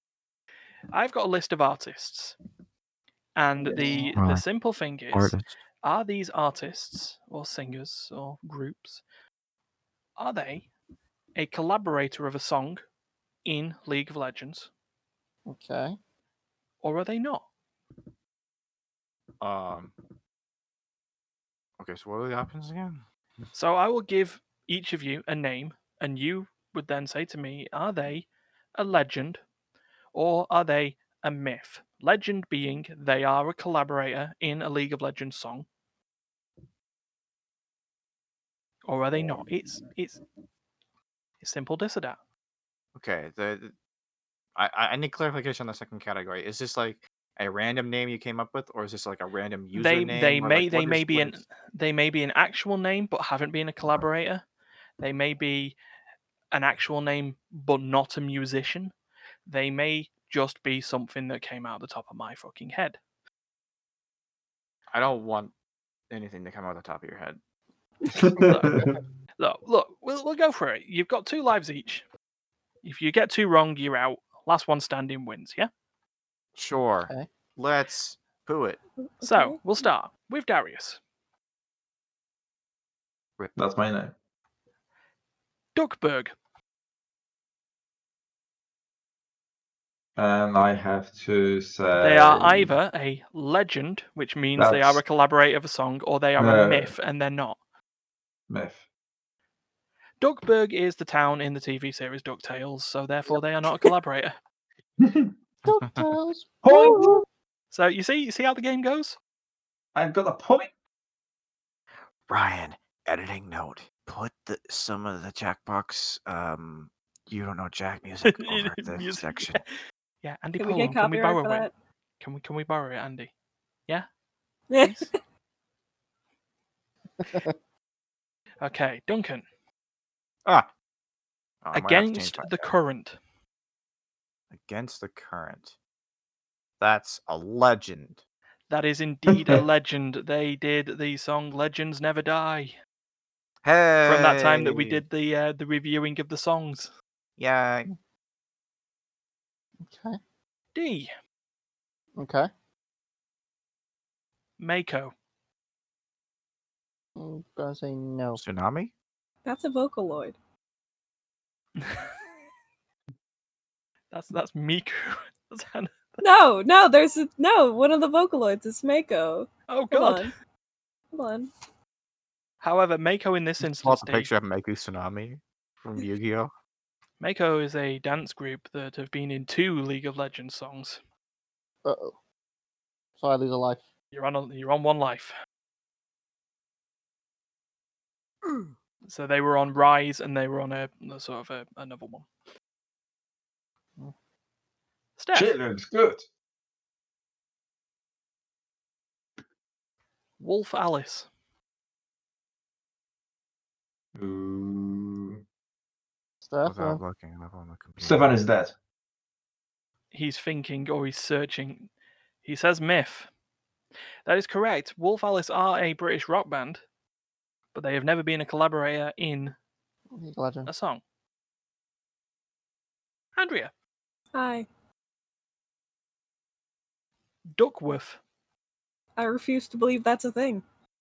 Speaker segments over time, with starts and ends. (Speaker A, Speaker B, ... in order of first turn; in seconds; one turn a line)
Speaker A: 0.9-2.4
Speaker A: 3.4-9.0
Speaker B: 3.6-4.2
Speaker C: 4.2-4.4
Speaker C: 5.1-5.5
Speaker A: 10.2-10.7
Speaker A: 11.4-12.8
Speaker A: 13.4-14.7
Speaker B: 15.5-16.0
Speaker A: 16.8-17.5
Speaker C: 19.4-19.9
Speaker C: 21.8-23.0
Speaker A: 23.5-29.4
Speaker A: 30.1-35.7
Speaker A: 38.9-40.2
Speaker A: 41.4-42.2
Speaker C: 43.0-43.7
Speaker C: 44.6-51.4
Speaker A: 49.7-54.4
Speaker A: 55.0-55.8
Speaker A: 56.5-58.9
Speaker A: 59.5-63.0
Speaker C: 64.9-65.5
Speaker C: 66.1-67.4
Speaker D: 68.1-69.0
Speaker A: 68.4-68.8
Speaker A: 69.4-72.0
Speaker A: 72.8-75.7
Speaker C: 76.6-78.8
Speaker E: 79.2-79.6
Speaker A: 79.2-81.0
Speaker D: 83.5-84.1
Speaker A: 85.8-86.3
Speaker D: 90.2-92.7
Speaker A: 92.0-97.6
Speaker D: 94.6-95.0
Speaker D: 96.4-96.9
Speaker D: 98.5-98.8
Speaker A: 100.2-104.4
Speaker D: 105.0-105.3
Speaker B: 105.7-107.2
Speaker D: 106.6-107.2
Speaker A: 107.7-109.2
Speaker D: 110.0-110.7
Speaker C: 112.3-119.6
Speaker A: 118.2-119.7
Speaker A: 120.2-121.7
Speaker E: 120.6-121.7
Speaker A: 122.2-123.3
Speaker E: 124.7-125.1
Speaker A: 124.8-125.1
Speaker B: 127.2-127.5
Speaker A: 128.6-129.4
Speaker C: 131.6-132.7
Speaker A: 131.7-133.2
Speaker C: 134.5-135.8
Speaker C: 136.8-138.2
Speaker A: 138.7-142.8
Speaker D: 139.3-139.6
Speaker C: 143.6-145.0
Speaker A: 144.1-146.9
Speaker C: 147.4-147.9
Speaker B: 149.8-150.2
Speaker A: 150.7-151.1
Speaker B: 152.2-152.5
Speaker A: 154.6-155.1
Speaker B: 157.2-158.4
Speaker C: 158.3-158.9
Speaker E: 159.4-160.4
Speaker A: 161.8-162.1
Speaker A: 164.1-166.2
Speaker E: 166.2-170.3
Speaker A: 169.7-170.3
Speaker E: 171.1-171.5
Speaker A: 172.6-174.3
Speaker C: 173.6-176.5
Speaker A: 177.2-181.0
Speaker B: 181.8-182.2
Speaker B: 183.2-183.9
Speaker A: 184.1-185.3
Speaker A: 189.0-192.3
Speaker A: 195.2-195.5
Speaker D: 195.3-196.2
Speaker A: 200.4-201.3
Speaker D: 204.2-205.4
Speaker B: 206.4-207.0
Speaker C: 206.6-208.3
Speaker D: 208.0-208.8
Speaker A: 210.1-211.9
Speaker A: 212.4-213.3
Speaker A: 214.3-216.8
Speaker A: 217.7-219.6
Speaker B: 220.1-220.7
Speaker A: 220.7-221.0
Speaker A: 223.4-223.7
Speaker E: 224.3-224.7
Speaker A: 227.6-228.2
Speaker E: 229.2-230.6